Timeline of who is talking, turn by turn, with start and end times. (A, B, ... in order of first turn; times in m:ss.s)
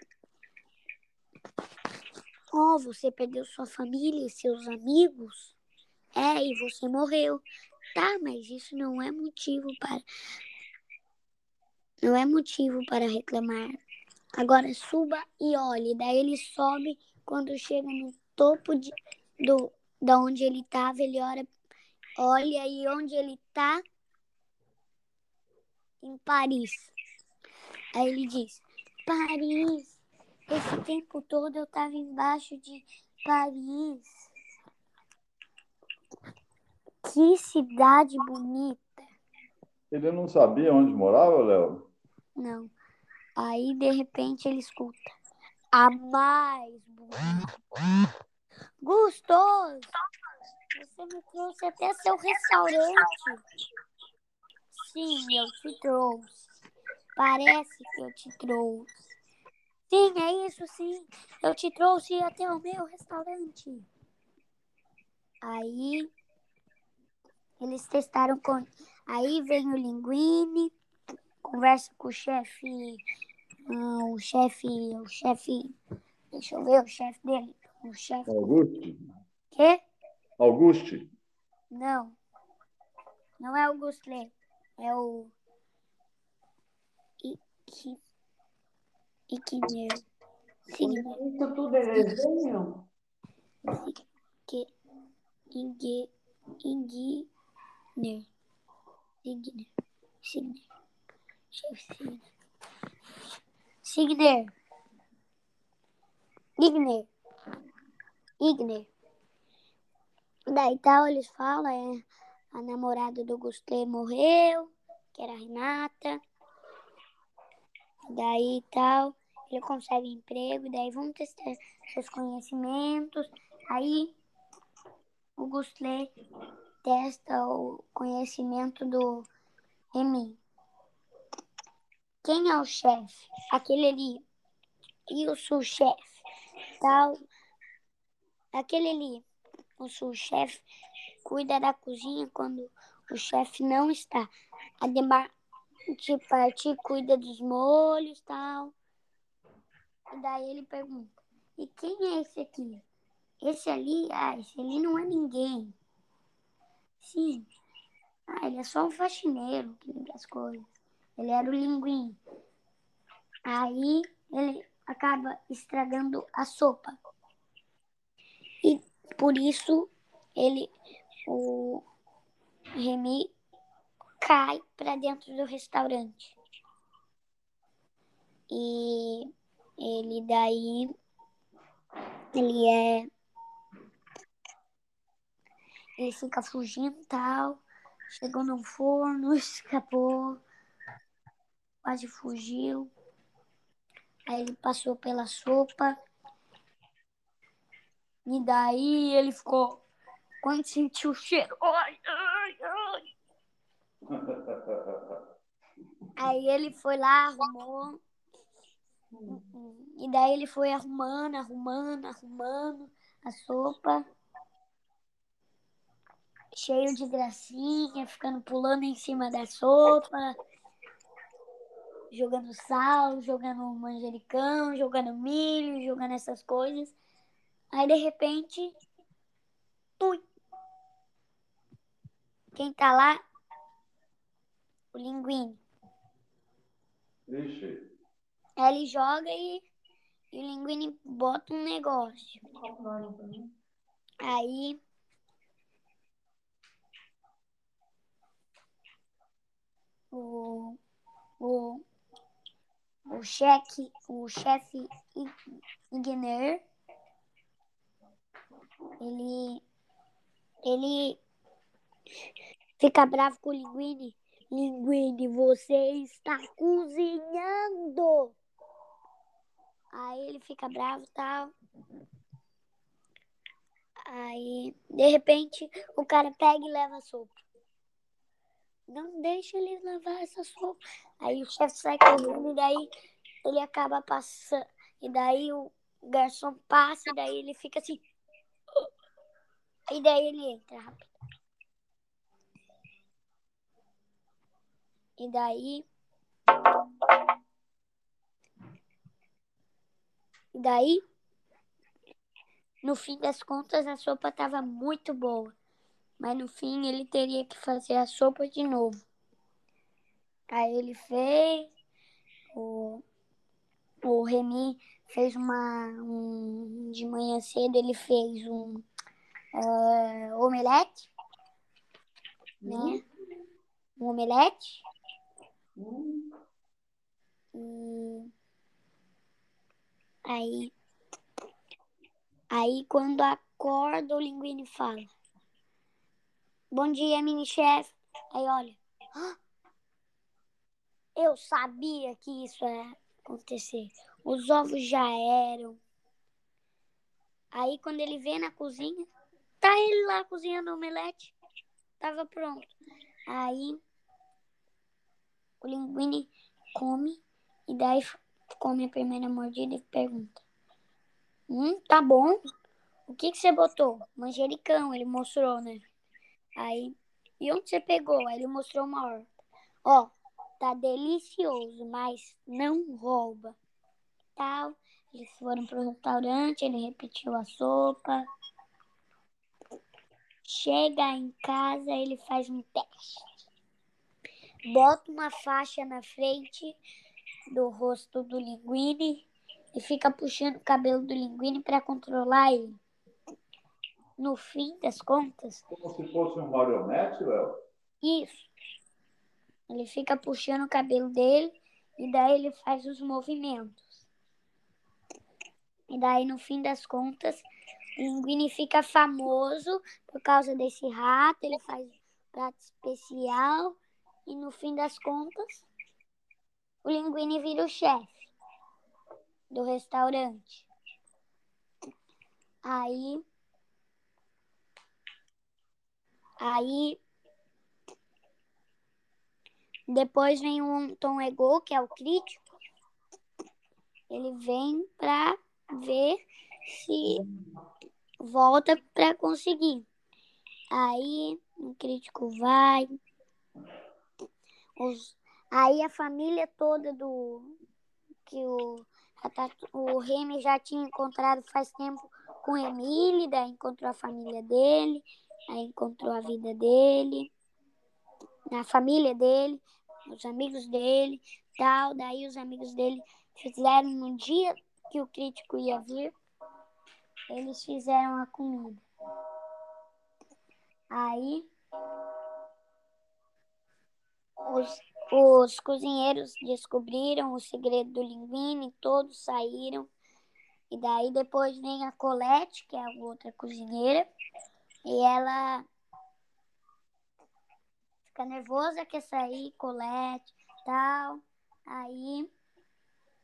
0:02.5-0:05.5 A
0:06.1-0:07.4 A
0:07.9-0:10.0 A
0:12.0-0:13.8 A
0:14.4-0:21.5 A
0:22.2-0:23.8 A
0:26.0-0:26.9 A
0:27.9-0:30.0 A
0:30.5-0:34.3 A
0:37.0-0:39.0 A
0:39.9-0:41.9 B
0:42.4-0:42.7 A
0:43.4-0:45.1 A
0:45.7-0:47.5 A
0:48.8-0:49.9 A
0:50.7-0:53.4 A
0:54.7-0:56.4 A
0:57.2-0:58.9 A
0:59.9-1:03.8 A
1:05.4-1:06.1 A
1:07.6-1:10.7 A
1:11.4-1:13.0 A
1:13.7-1:15.7 A
1:16.3-1:18.5 A
1:18.3-1:19.0 B
1:19.5-1:19.8 A
1:20.4-1:21.1 B
1:21.7-1:22.2 A
1:23.4-1:25.3 A
1:27.2-1:28.0 A
1:29.3-1:30.0 A
1:30.7-1:31.2 A
1:30.8-1:32.8 C
1:33.7-1:34.7 A
1:35.5-1:36.1 A
1:36.6-1:37.3 A
1:38.0-1:38.3 A
1:39.2-1:39.7 A
1:40.2-1:40.6 A
1:41.5-1:42.2 A
1:43.8-1:44.5 A
1:46.6-1:47.1 A
1:48.4-1:48.9 A
1:50.5-1:56.2 A
1:58.1-2:04.1 A
2:05.4-2:06.1 A
2:06.8-2:09.3 A
2:09.9-2:10.4 A
2:12.2-2:14.2 A
2:15.1-2:16.2 A
2:16.8-2:17.2 A
2:18.5-2:19.2 A
2:19.8-2:20.6 A
2:21.2-2:24.3 A
2:24.8-2:25.3 A
2:25.9-2:28.7 A
2:30.1-2:32.8 A
2:33.4-2:35.7 A
2:37.0-2:37.5 A
2:38.3-2:40.7 A
2:41.2-2:42.2 A
2:43.5-2:47.0 A
2:48.6-2:50.7 A
2:51.3-2:51.8 A
2:52.8-2:53.3 A
2:54.2-2:56.3 A
2:58.5-3:00.9 A
3:02.3-3:03.1 A
3:06.0-3:10.4 A
3:11.8-3:12.9 A
3:14.3-3:15.9 A
3:18.2-3:19.8 A
3:20.4-3:23.0 A
3:24.1-3:25.2 B
3:26.2-3:28.0 A
3:29.1-3:29.4 C
3:29.3-3:34.0 A
3:36.5-3:40.4 A
3:42.1-3:46.9 A
3:47.7-3:48.7 A
3:50.0-3:50.2 A
3:52.5-3:53.2 A
3:54.9-3:55.6 A
3:57.3-3:57.8 B
3:58.6-3:59.6 A
4:00.3-4:02.4 A
4:02.5-4:03.5 C
4:04.2-4:04.8 A
4:10.1-4:10.8 A
4:11.4-4:11.8 A
4:13.1-4:15.3 A
4:15.9-4:16.6 A
4:19.0-4:19.6 A
4:20.6-4:21.2 A
4:22.8-4:28.3 A
4:29.9-4:31.5 A
4:34.1-4:37.4 A
4:38.9-4:42.9 A
4:43.4-4:48.0 A
4:49.9-4:51.1 A
4:55.2-4:55.8 A
5:00.5-5:01.0 A
5:02.8-5:05.5 A
5:06.2-5:09.0 A
5:10.5-5:11.7 A
5:12.5-5:13.0 A
5:14.0-5:18.8 A
5:19.5-5:21.1 A
5:22.6-5:23.0 C
5:22.6-5:23.0 A
5:24.0-5:24.8 A
5:25.8-5:26.3 C
5:27.5-5:28.3 A
5:30.2-5:30.7 A
5:32.5-5:35.1 A
5:36.7-5:39.4 A
5:41.2-5:45.8 A
5:47.5-5:49.1 A
5:49.6-5:51.3 A
5:52.0-5:52.7 A
5:53.3-5:53.8 A
5:55.6-6:00.4 A
6:01.5-6:02.4 A
6:03.1-6:05.8 A
6:06.6-6:09.3 A
6:09.8-6:13.6 A
6:14.4-6:18.2 A
6:20.4-6:23.3 A
6:24.7-6:26.8 A
6:27.5-6:32.8 A
6:34.2-6:35.6 A
6:35.7-6:37.6 B
6:38.0-6:38.5 A
6:39.7-6:43.9 A
6:45.9-6:47.4 A
6:48.0-6:55.7 A
6:56.8-6:58.3 A
6:59.5-7:00.7 A
7:02.6-7:03.2 A
7:06.4-7:07.0 A
7:09.9-7:12.4 A
7:14.1-7:17.2 A
7:18.2-7:19.8 A
7:20.7-7:23.0 A
7:24.8-7:27.6 A
7:28.2-7:37.3 A
7:38.5-7:46.1 A
7:47.3-7:48.8 A
7:50.9-7:51.5 A
7:54.4-7:59.9 A
8:00.7-8:04.1 A
8:04.8-8:05.6 A
8:08.0-8:12.3 A